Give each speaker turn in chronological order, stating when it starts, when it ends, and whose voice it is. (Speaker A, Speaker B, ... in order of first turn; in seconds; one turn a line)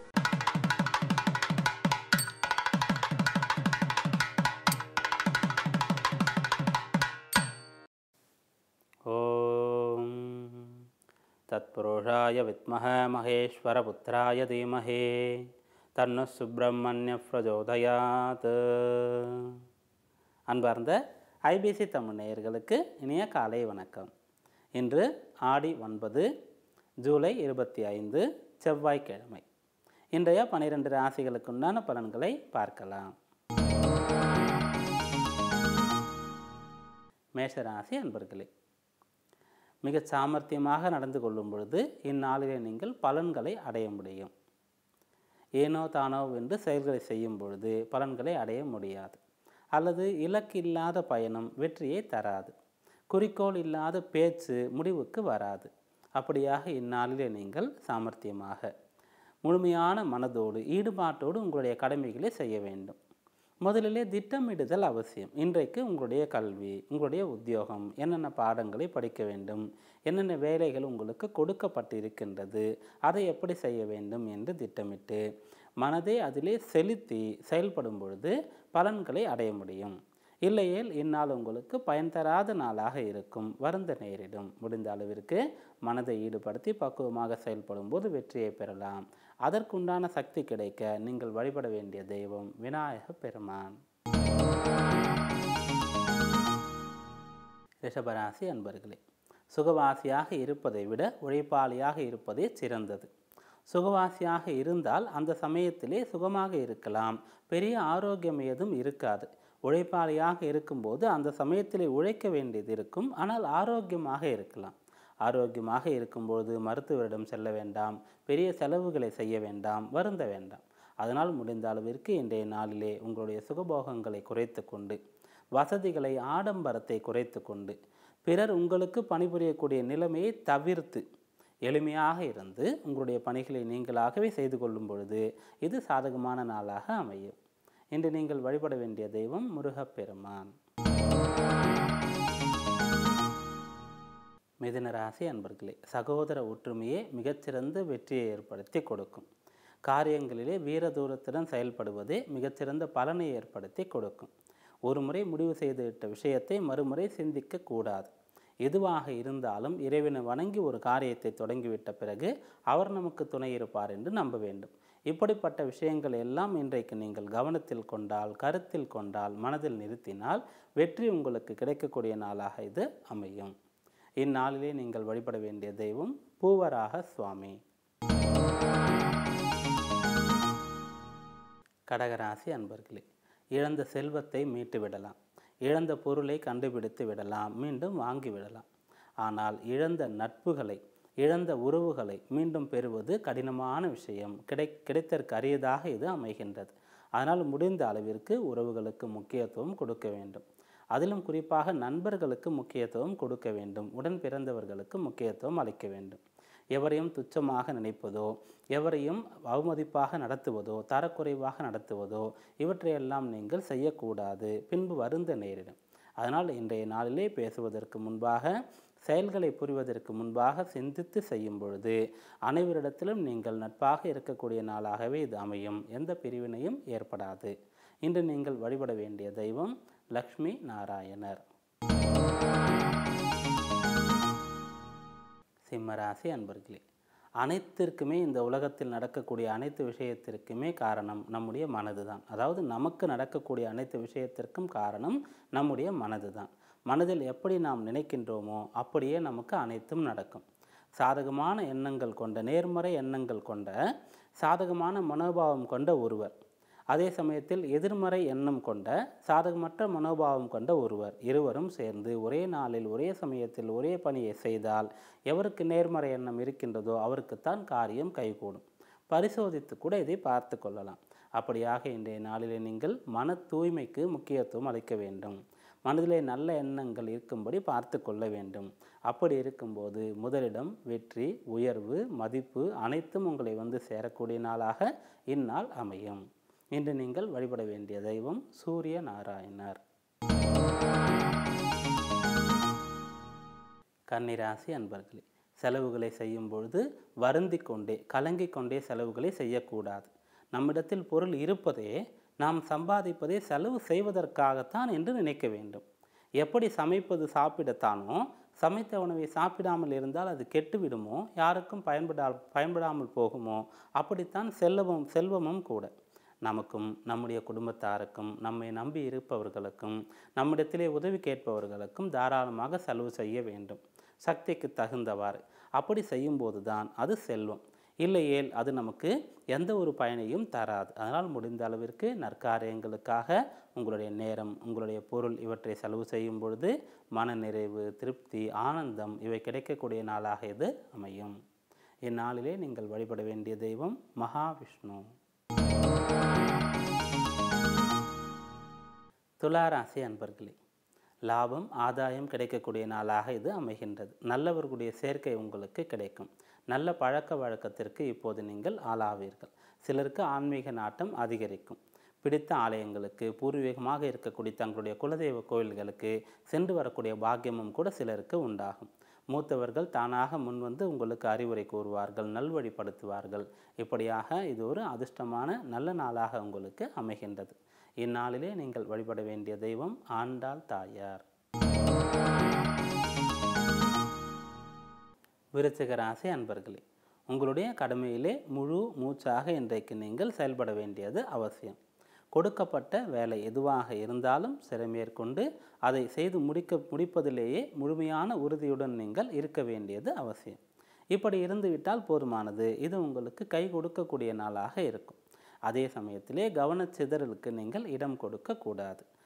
Speaker A: 9.1-10.8
Speaker A: 11.5-15.4
Speaker A: 16.0-19.6
Speaker A: 20.5-24.1
Speaker A: 24.8-26.3
Speaker A: 27.1-29.4
Speaker A: 30.2-33.1
Speaker A: 37.4-38.5
Speaker A: 39.9-44.3
Speaker A: 45.6-49.2
Speaker A: 49.8-52.5
Speaker A: 53.1-58.7
Speaker A: 59.5-63.0
Speaker A: 63.6-75.2
Speaker A: 75.8-93.8
Speaker A: 97.9-99.0
Speaker A: 99.5-103.1
Speaker A: 103.7-125.0
Speaker A: 125.6-131.0
Speaker A: 131.7-137.4
Speaker A: 137.9-140.5
Speaker A: 144.6-149.3
Speaker A: 149.9-154.3
Speaker A: 154.9-158.1
Speaker A: 158.7-173.5
Speaker A: 174.2-177.6
Speaker A: 181.9-183.0
Speaker A: 183.6-185.2
Speaker A: 185.7-188.7
Speaker A: 189.2-206.2
Speaker A: 206.8-218.5
Speaker A: 219.1-222.0
Speaker A: 222.5-227.5
Speaker A: 228.1-231.4
Speaker A: 235.7-236.8
Speaker A: 237.4-250.4
Speaker A: 251.0-253.8
Speaker A: 254.4-256.4
Speaker A: 256.9-286.2
Speaker A: 286.8-289.8
Speaker A: 294.1-305.8
Speaker A: 306.4-315.9
Speaker A: 316.4-341.3
Speaker A: 342.1-345.1
Speaker A: 349.4-350.6
Speaker A: 351.3-381.3
Speaker A: 385.6-391.8
Speaker A: 392.4-400.6
Speaker A: 401.1-409.1